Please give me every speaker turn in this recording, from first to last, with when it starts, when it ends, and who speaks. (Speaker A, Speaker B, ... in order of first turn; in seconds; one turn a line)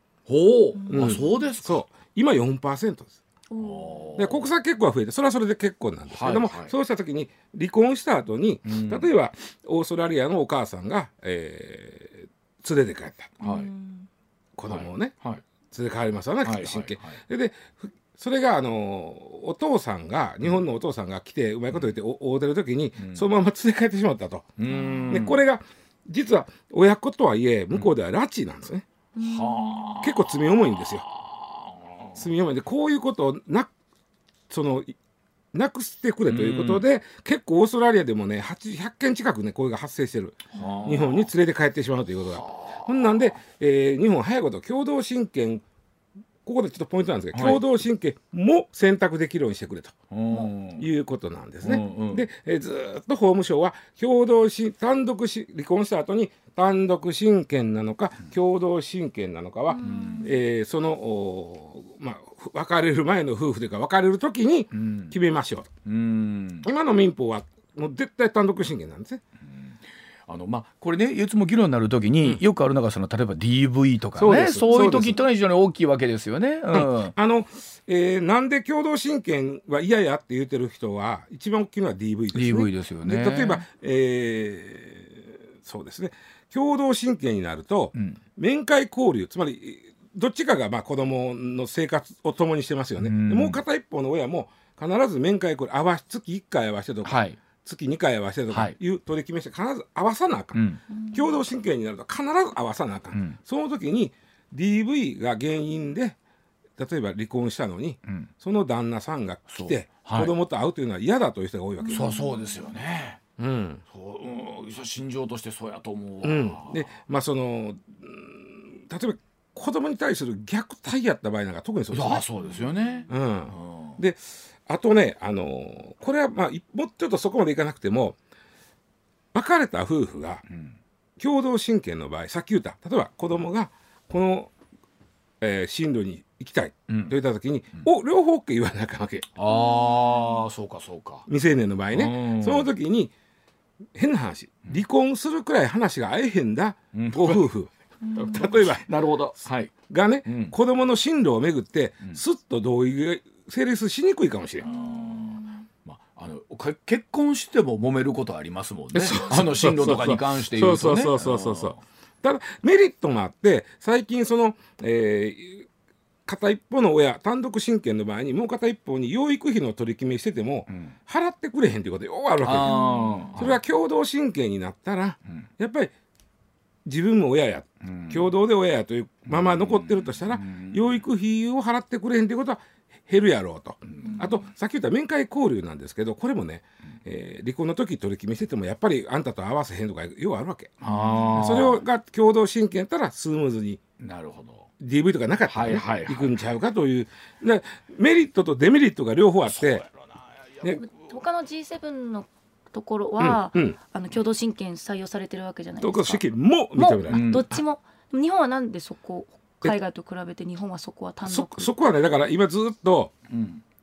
Speaker A: 0.3-1.8
Speaker B: 0.8-1.4
Speaker C: 0.9-3.2
Speaker B: 3.5-4.1
Speaker A: 3.6-4.5
Speaker C: 4.2-13.3
Speaker A: 6.1-6.7
Speaker A: 8.7-9.1
Speaker A: 13.4-13.7
Speaker B: 13.4-14.1
Speaker C: 14.6-15.1
Speaker A: 14.7-15.4
Speaker C: 15.7-24.5
Speaker A: 16.4-17.2
Speaker A: 23.0-23.3
Speaker A: 24.6-25.4
Speaker B: 24.7-25.1
Speaker C: 25.1-28.8
Speaker B: 29.1-30.1
Speaker A: 29.2-30.4
Speaker C: 30.0-31.0
Speaker A: 30.9-32.2
Speaker C: 32.1-33.7
Speaker C: 34.5-34.9
Speaker C: 35.5-45.6
Speaker A: 36.3-36.8
Speaker A: 40.5-41.3
Speaker A: 42.4-42.8
Speaker C: 46.5-50.0
Speaker A: 47.3-47.6
Speaker A: 50.1-50.9
Speaker C: 50.8-65.7
Speaker A: 51.6-52.3
Speaker B: 59.7-60.3
Speaker A: 59.8-60.3
Speaker A: 64.7-65.1
Speaker A: 65.8-66.7
Speaker C: 66.6-69.2
Speaker A: 70.3-77.1
Speaker C: 74.2-75.2
Speaker B: 74.6-75.0
Speaker C: 76.7-106.2
Speaker A: 82.3-83.6
Speaker A: 93.0-93.6
Speaker A: 97.0-97.4
Speaker A: 98.5-98.8
Speaker A: 100.5-100.8
Speaker A: 103.1-103.4
Speaker C: 106.8-112.1
Speaker A: 109.5-110.3
Speaker B: 111.9-112.3
Speaker A: 111.9-113.2
Speaker C: 113.4-113.8
Speaker A: 113.9-116.9
Speaker C: 116.2-122.2
Speaker A: 121.9-124.0
Speaker C: 123.1-128.2
Speaker C: 129.3-130.4
Speaker A: 130.5-130.8
Speaker C: 131.2-134.5
Speaker C: 135.4-139.3
Speaker A: 136.9-137.2
Speaker A: 139.3-141.3
Speaker B: 139.5-140.4
Speaker C: 141.3-143.1
Speaker A: 141.9-142.7
Speaker C: 143.9-147.7
Speaker A: 146.9-147.5
Speaker A: 148.1-150.5
Speaker C: 148.2-148.9
Speaker C: 149.9-154.7
Speaker B: 154.6-155.5
Speaker A: 154.6-161.8
Speaker C: 158.9-165.7
Speaker C: 166.3-172.8
Speaker A: 170.7-170.9
Speaker A: 172.4-173.6
Speaker B: 172.7-173.3
Speaker C: 173.4-175.9
Speaker C: 176.8-190.8
Speaker A: 177.8-178.3
Speaker A: 179.3-180.8
Speaker A: 183.9-184.2
Speaker A: 190.8-191.8
Speaker C: 191.4-193.8
Speaker A: 194.0-194.7
Speaker C: 194.8-199.8
Speaker A: 195.5-196.3
Speaker A: 199.6-199.8
Speaker B: 200.8-206.2
Speaker C: 203.2-203.8
Speaker C: 205.8-207.6
Speaker B: 206.8-211.7
Speaker A: 207.1-207.6
Speaker C: 211.2-213.1
Speaker A: 213.3-213.6